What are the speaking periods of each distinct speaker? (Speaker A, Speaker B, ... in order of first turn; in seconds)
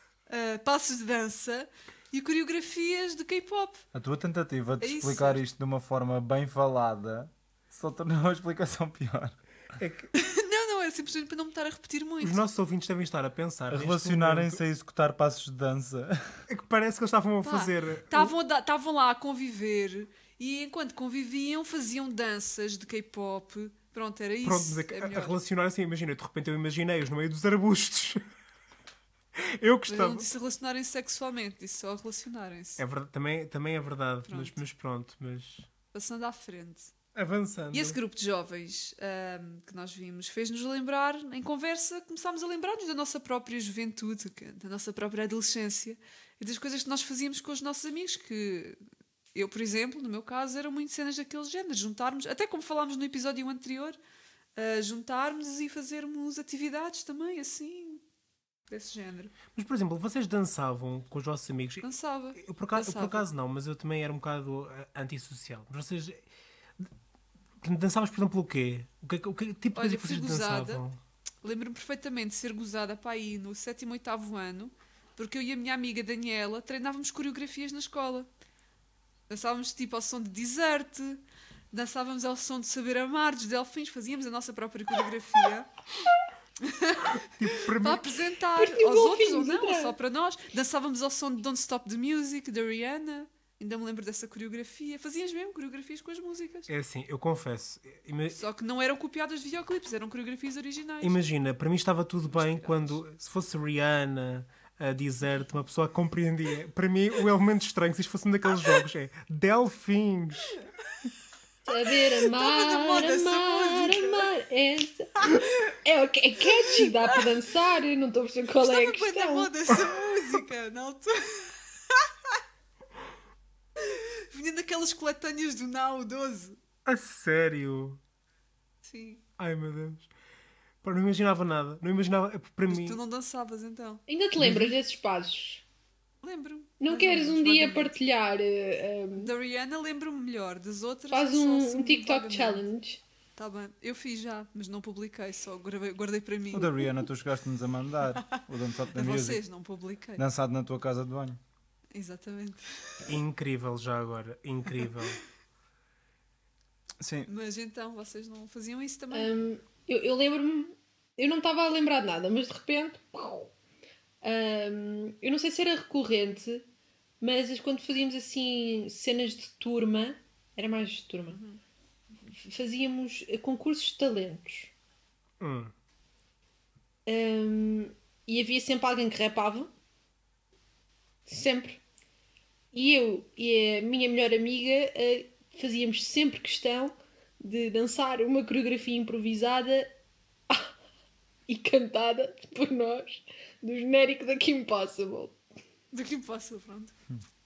Speaker A: 0.3-3.8, 4.8-5.4, 10.2-12.5, 17.4-25.4, 29.9-32.8, 34.3-34.5, 35.9-36.9, 37.7-48.8, 49.4-54.0, 54.6-58.0, 58.7-59.3, 61.8-63.3, 69.8-70.8, 71.4-78.3, 79.3-85.7, 86.6-96.7, 98.3-101.2, 102.3-103.0, 111.8-114.3, 116.7-117.3, 118.6-122.4, 123.8-126.6, 128.8-129.2, 132.7-134.0, 136.2-138.0, 139.2-142.7, 143.4-146.9, 148.2-148.4, 148.9-150.2, 151.9-153.1, 157.3-159.4, 171.3-171.6, 195.9-196.9
Speaker B: 3.9-9.4, 13.7-16.4, 146.5-149.4, 150.2-151.4, 157.0-157.3
Speaker C: 9.8-10.1, 12.2-14.6, 16.5-18.3, 24.4-28.2, 29.4-30.3, 32.8-35.7, 37.1-38.0, 59.5-66.2, 67.6-71.0, 87.2-88.2, 96.7-98.4, 101.0-110.6, 126.9-128.0, 129.4-130.1, 130.8-133.0, 134.4-134.8, 153.1-155.2, 175.4-175.7
Speaker D: 88.6-90.0, 111.7-119.5, 134.1-135.6, 136.8-139.3, 141.1-143.0, 159.1-163.5, 164.2-166.7, 167.2-171.4, 172.3-174.7, 177.1-179.7, 181.3-181.8, 182.7-189.9, 191.5-195.4